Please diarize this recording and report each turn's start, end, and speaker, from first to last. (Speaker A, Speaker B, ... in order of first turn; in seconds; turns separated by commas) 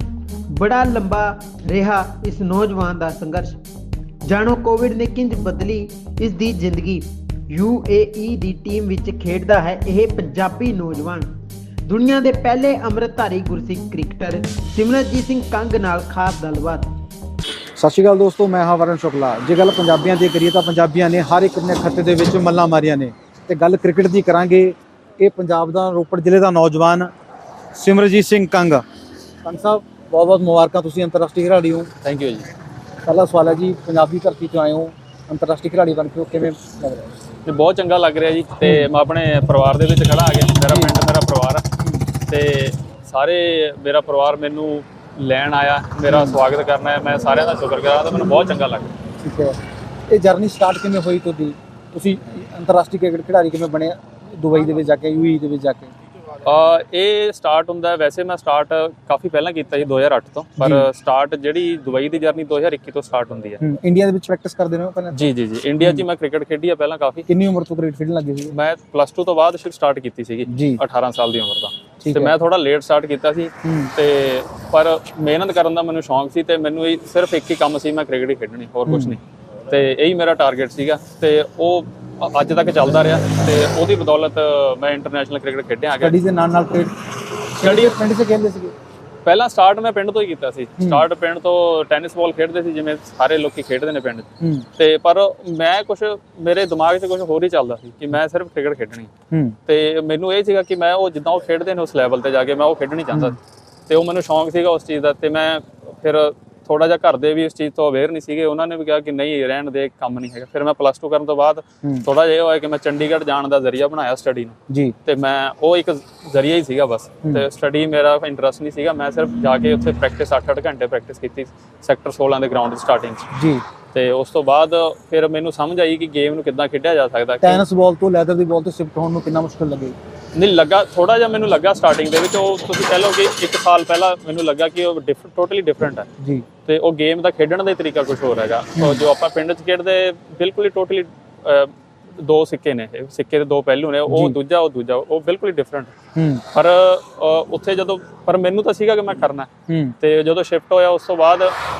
Speaker A: 0.5-3.6, Speaker A: 4.2-11.3, Speaker A: 11.9-16.9, Speaker B: 17.8-27.1, Speaker B: 27.7-28.8, Speaker B: 29.4-31.9, Speaker C: 32.0-32.5, Speaker B: 33.0-37.1, Speaker C: 37.4-41.6, Speaker B: 38.6-38.9, Speaker B: 40.6-41.0, Speaker B: 41.8-42.1, Speaker C: 42.2-48.9, Speaker B: 46.1-46.4, Speaker B: 49.2-49.6, Speaker B: 50.1-55.9, Speaker C: 56.4-63.6, Speaker B: 60.6-60.9, Speaker B: 63.6-65.2, Speaker C: 65.1-67.2, Speaker B: 65.8-66.0, Speaker B: 67.3-68.5, Speaker C: 68.5-86.2, Speaker B: 70.5-70.8, Speaker B: 72.0-72.3, Speaker B: 73.6-73.9, Speaker B: 78.8-79.2, Speaker B: 86.0-86.9, Speaker B: 87.5-88.7, Speaker C: 87.6-88.0, Speaker C: 89.2-99.1, Speaker B: 90.8-91.0, Speaker B: 94.4-94.7, Speaker B: 99.3-99.6, Speaker C: 99.7-123.3, Speaker B: 114.7-115.0, Speaker B: 123.3-123.6, Speaker C: 123.9-127.6, Speaker B: 127.4-129.9, Speaker C: 130.3-136.1, Speaker B: 136.2-136.4, Speaker C: 136.6-145.9, Speaker B: 138.7-139.0, Speaker B: 144.1-144.4, Speaker B: 146.1-146.4, Speaker C: 146.5-149.5, Speaker B: 149.7-149.9, Speaker C: 150.0-151.6